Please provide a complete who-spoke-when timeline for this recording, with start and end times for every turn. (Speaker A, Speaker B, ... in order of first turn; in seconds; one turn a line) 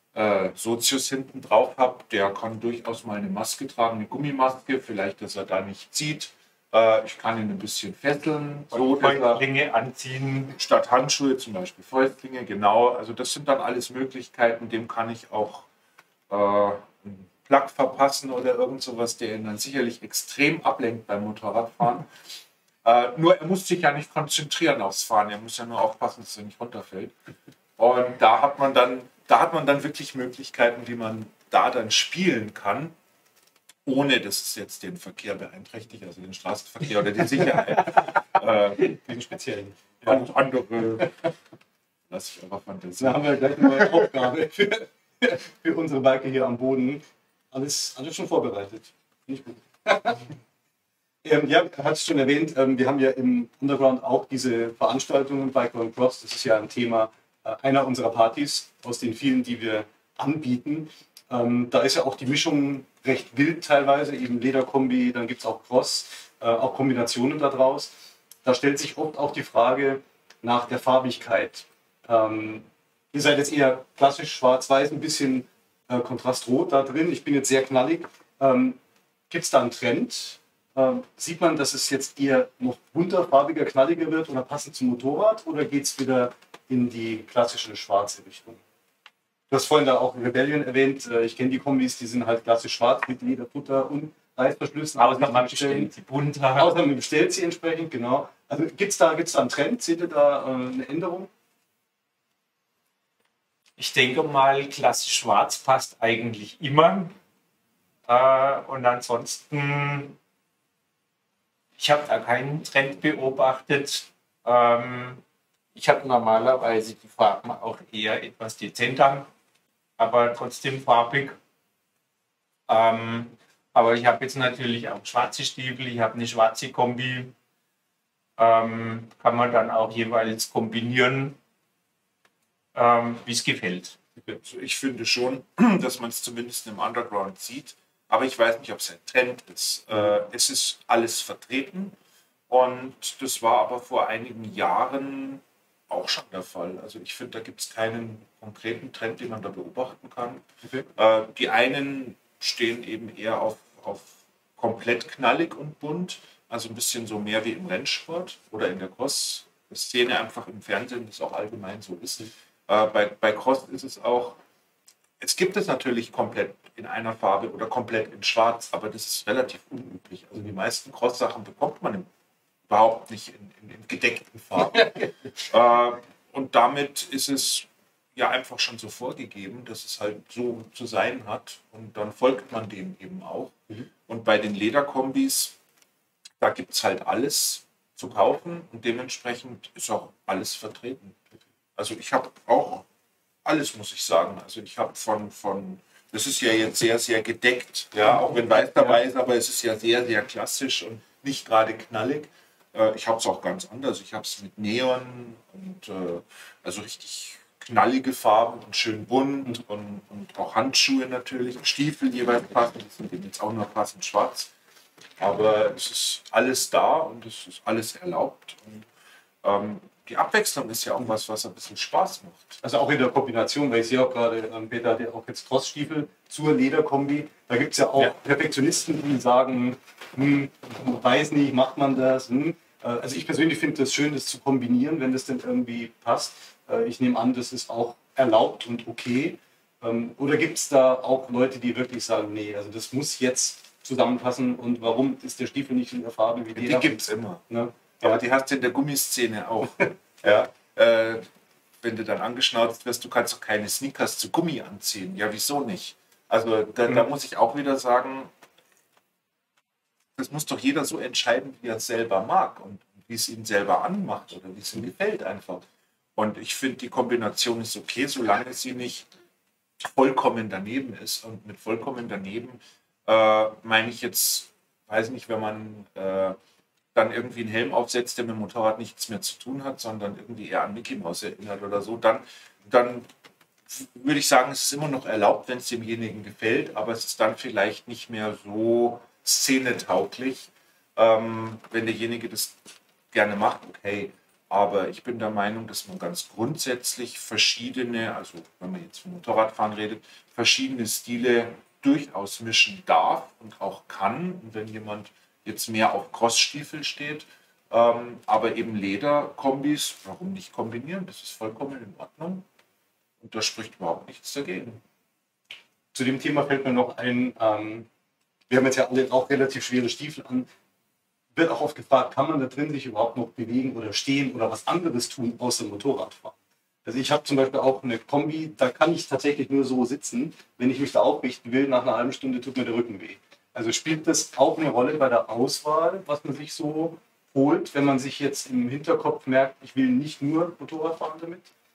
Speaker A: 0.1-9.4
Speaker B: 8.7-10.6
Speaker A: 10.5-15.7
Speaker A: 16.3-22.1
Speaker A: 22.8-27.1
Speaker A: 27.8-33.0
Speaker A: 33.9-39.0
Speaker C: 38.8-40.3
Speaker A: 40.0-41.3
Speaker A: 42.1-44.1
Speaker C: 43.0-50.3
Speaker C: 51.2-67.9
Speaker C: 68.4-78.8
Speaker C: 79.3-88.6
Speaker C: 89.5-95.9
Speaker B: 95.0-96.7
Speaker C: 96.5-101.3
Speaker B: 103.8-107.2
Speaker B: 108.1-110.2
Speaker B: 111.8-115.2
Speaker B: 115.7-119.3
Speaker B: 120.0-121.4
Speaker B: 122.7-127.3
Speaker B: 128.4-131.4
Speaker B: 132.7-134.0
Speaker A: 134.4-142.0
Speaker A: 142.5-150.4
Speaker C: 150.6-150.9
Speaker A: 151.0-164.4
Speaker A: 165.2-172.1
Speaker A: 172.7-183.6
Speaker C: 174.7-175.1
Speaker A: 184.1-185.6
Speaker A: 186.4-191.2
Speaker A: 191.8-192.8
Speaker A: 193.4-214.5
Speaker A: 215.2-218.9
Speaker A: 219.4-222.6
Speaker C: 222.6-248.2
Speaker A: 246.6-247.4
Speaker A: 248.0-251.3
Speaker A: 251.8-258.3
Speaker A: 260.2-265.6
Speaker A: 266.2-269.1
Speaker A: 269.8-276.4
Speaker A: 276.9-283.1
Speaker A: 283.7-292.6
Speaker A: 293.1-312.4
Speaker A: 313.2-314.8
Speaker C: 315.9-317.9
Speaker C: 318.5-320.5
Speaker C: 321.3-341.5